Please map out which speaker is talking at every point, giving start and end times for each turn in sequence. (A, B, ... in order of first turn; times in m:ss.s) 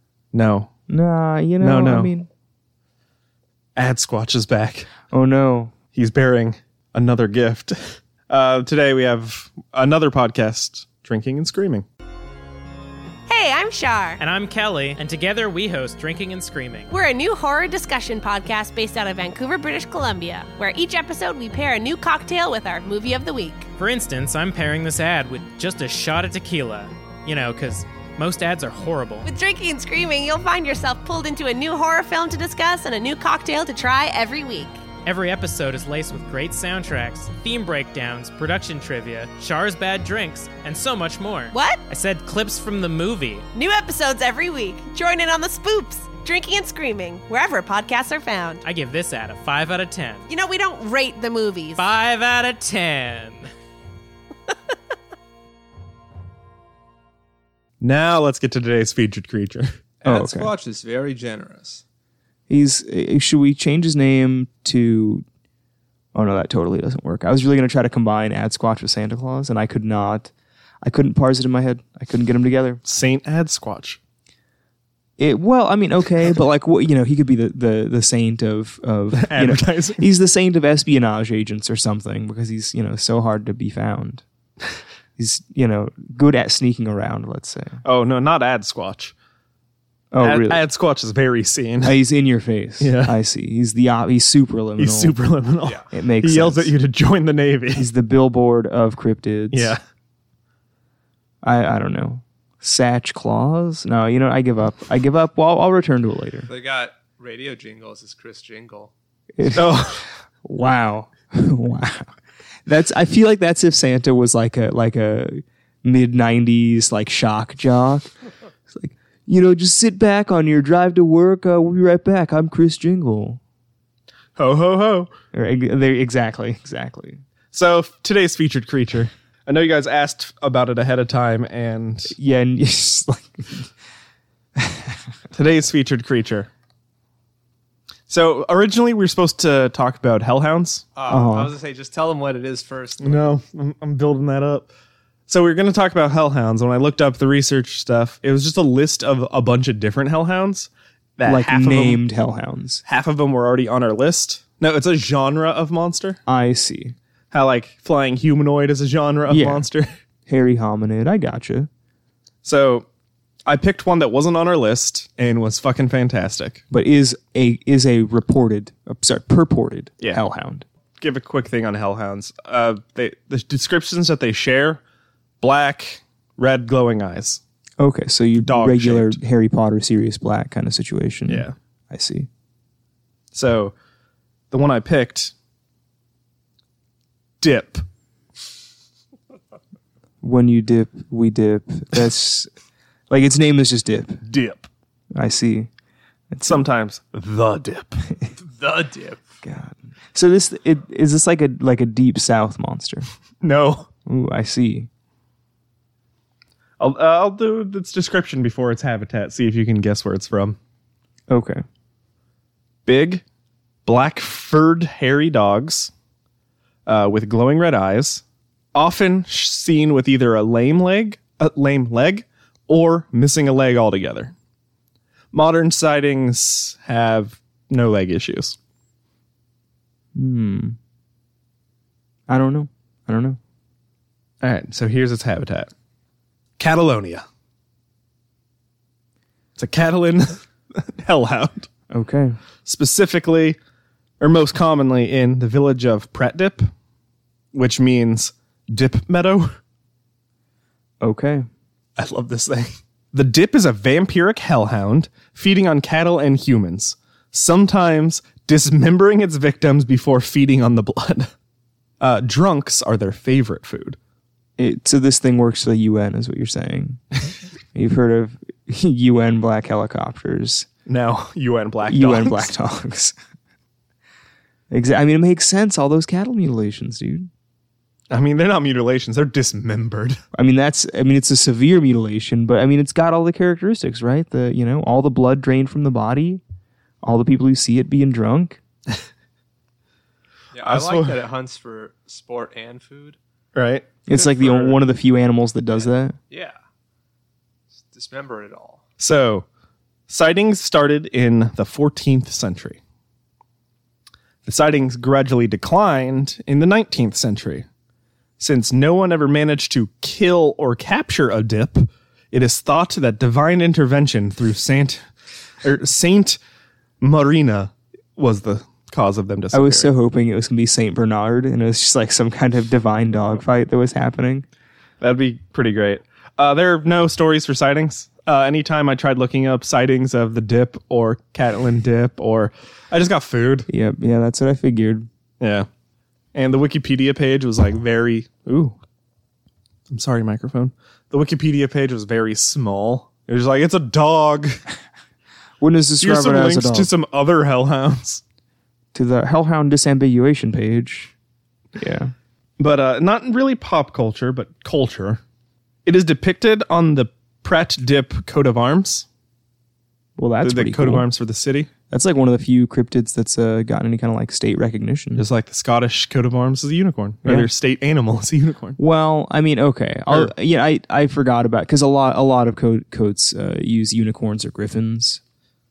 0:00.3-0:00.7 A
0:00.9-0:02.3 B
0:01.6-0:02.1 A
0:03.8-0:04.9 A
0:05.1-0:05.7 B
0:05.9-0:11.9 A
0:13.3-0:14.2 C
0:14.2-0:16.9 D
0:16.9-0:23.7 C
0:23.8-0:29.3 D
0:29.2-0:34.8 C
0:35.0-0:43.5 D
0:41.5-0:41.8 C
0:43.5-0:48.6 C
0:48.6-0:50.3 D
0:50.3-0:51.8 C
0:51.8-0:53.5 D
0:57.8-0:59.7 A
1:00.0-1:01.8 E
1:00.0-1:00.5 B
1:02.5-1:05.2 B
1:06.1-1:10.3 B
1:10.8-1:12.8 B
1:12.9-1:14.0 A
1:15.2-1:24.2 B
1:19.1-1:20.0 A
1:25.2-1:27.8 B
1:27.8-1:29.1 A
1:30.1-1:30.6 B
1:30.2-1:32.0 A
1:31.8-1:35.2 B
1:32.8-1:33.2 A
1:34.8-1:37.9 A
1:35.9-1:36.7 B
1:37.8-1:39.8 B
1:39.5-1:39.8 A
1:41.4-1:46.5 B
1:46.5-1:48.9 E
1:49.4-1:52.1 B
1:49.5-1:50.0 A
1:52.7-1:58.1 B
1:58.7-2:03.4 B
2:04.4-2:05.1 A
2:05.3-2:07.2 B
2:07.5-2:12.1 A
2:12.1-2:13.7 B
2:14.6-2:15.0 B
2:15.3-2:16.5 A
2:18.1-2:20.9 A
2:21.0-2:23.4 E
2:21.1-2:21.6 B
2:23.0-2:24.7 A
2:25.3-2:32.0 A
2:31.3-2:32.8 B
2:32.9-2:36.2 A
2:36.3-2:37.0 B
2:37.3-2:39.9 A
2:39.3-2:39.7 B
2:40.3-2:41.7 B
2:42.4-2:42.9 A
2:43.5-2:46.6 A
2:46.7-2:50.7 B
2:51.0-2:54.8 A
2:55.4-2:57.4 A
2:57.8-3:02.3 B
2:58.4-2:59.2 A
3:01.3-3:01.6 A
3:03.3-3:03.8 A
3:04.5-3:05.3 A
3:07.4-3:07.8 A
3:10.2-3:12.5 B
3:13.1-3:14.2 B
3:14.3-3:14.7 A
3:15.2-3:15.7 B
3:16.3-3:16.6 B
3:16.5-3:18.0 A
3:18.4-3:19.2 E
3:19.4-3:23.1 B
3:23.4-3:23.9 A
3:24.1-3:24.9 B
3:26.8-3:30.6 A
3:31.3-3:31.6 B
3:32.9-3:33.2 A
3:33.8-3:35.9 A
3:36.9-3:38.2 A
3:38.7-3:44.3 A
3:45.3-3:48.6 A
3:50.2-3:50.8 B
3:52.3-3:53.4 B
3:54.4-3:55.7 A
3:56.6-3:57.2 A
3:59.6-4:01.7 A
4:01.9-4:02.4 B
4:02.6-4:03.6 A
4:04.2-4:06.7 A
4:07.5-4:09.5 A
4:11.0-4:11.5 B
4:12.0-4:21.3 A
4:22.0-4:24.0 A
4:24.6-4:27.0 B
4:27.7-4:30.7 B
4:30.9-4:32.5 A
4:31.9-4:33.2 B
4:34.7-4:37.3 B
4:38.1-4:40.2 A
4:40.3-4:46.4 B
4:47.0-4:48.6 B
4:50.5-4:53.2 E
4:50.6-4:51.2 A
4:53.5-4:54.8 A
4:54.1-4:56.2 B
4:55.7-4:56.6 E
4:57.7-4:58.8 E
4:59.0-4:59.5 A
5:00.1-5:02.8 A
5:04.4-5:07.6 A
5:08.4-5:15.1 A
5:15.6-5:16.4 A
5:17.0-5:19.9 A
5:19.5-5:24.5 B
5:25.0-5:33.7 A
5:33.7-5:35.1 B
5:35.4-5:35.7 A
5:36.3-5:38.8 A
5:39.9-5:44.6 A
5:45.6-5:46.9 B
5:46.0-5:48.2 A
5:48.9-5:51.1 B
5:51.8-5:52.1 B
5:52.6-5:55.2 A
5:55.8-5:59.1 A
6:00.2-6:01.1 B
6:00.4-6:01.7 A
6:01.9-6:05.3 B
6:05.2-6:08.8 A
6:07.2-6:07.5 B
6:08.8-6:15.2 B